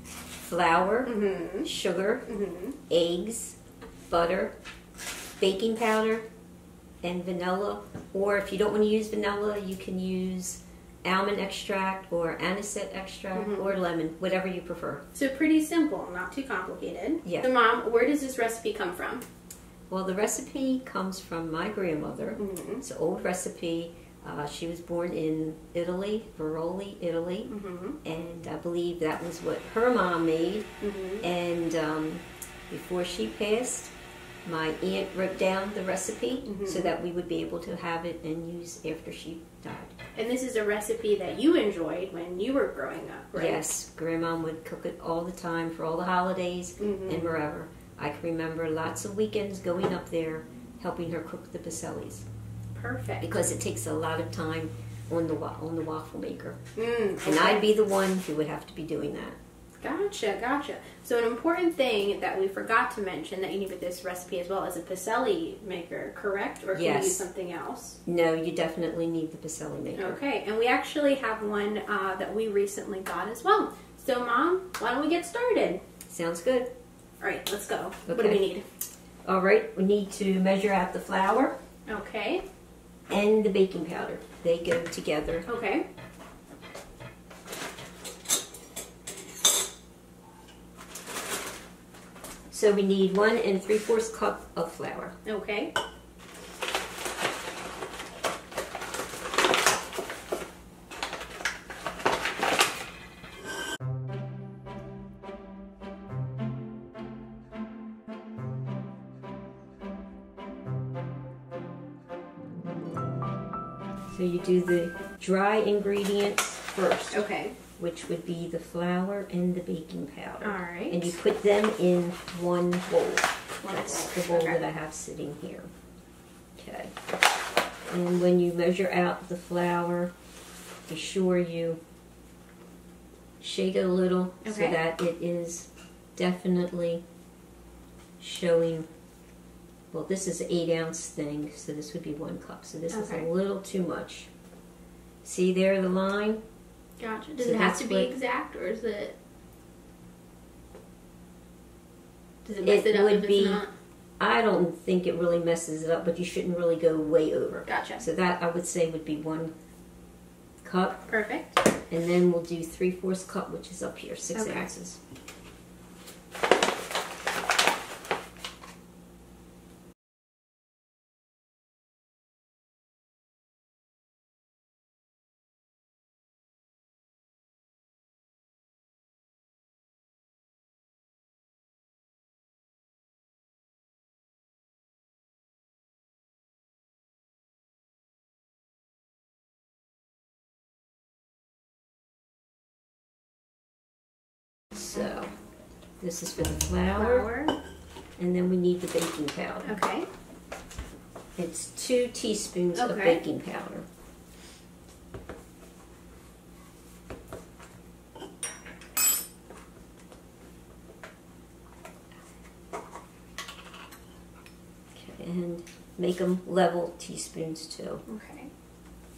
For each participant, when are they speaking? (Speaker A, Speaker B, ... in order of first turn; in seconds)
Speaker A: 0.5-2.3, 2.9-3.6, 4.1-4.6, 5.4-6.3, 7.0-15.1, 17.2-17.5, 19.9-27.5, 28.0-30.7, 31.2-33.9, 34.5-40.0, 43.3-52.3, 53.2-56.6, 57.2-59.4, 66.7-67.2, 68.1-70.2, 76.1-76.7, 78.1-78.5, 79.2-81.6, 83.1-85.5, 92.5-95.2, 114.1-117.2, 117.8-125.7, 126.6-126.9, 127.9-130.1, 130.9-131.8, 133.4-137.0, 138.2-138.9, 139.9-144.3, 145.2-146.4, 147.4-148.1, 152.6-153.7, 154.2-159.5, 160.6-161.1, 161.9-165.0, 194.7-195.4, 196.0-197.3, 198.2-199.8, 201.4-203.9, 214.9-218.0
Speaker B: 1.1-1.7, 2.3-2.8, 13.3-13.8, 15.1-19.2, 22.4-22.8, 27.5-28.0, 30.8-31.3, 36.5-36.9, 40.2-43.6, 46.8-47.4, 52.8-53.4, 56.8-57.7, 59.8-68.0, 70.0-75.8, 77.2-78.7, 81.9-82.5, 85.5-85.9, 95.2-95.7, 117.1-117.6, 120.4-121.2, 123.6-124.6, 134.4-134.8, 142.9-143.3, 147.0-149.2, 152.4-153.7, 157.7-158.1, 161.1-161.6, 164.3-164.7, 196.9-197.6, 199.6-200.1, 202.7-203.2, 218.1-218.5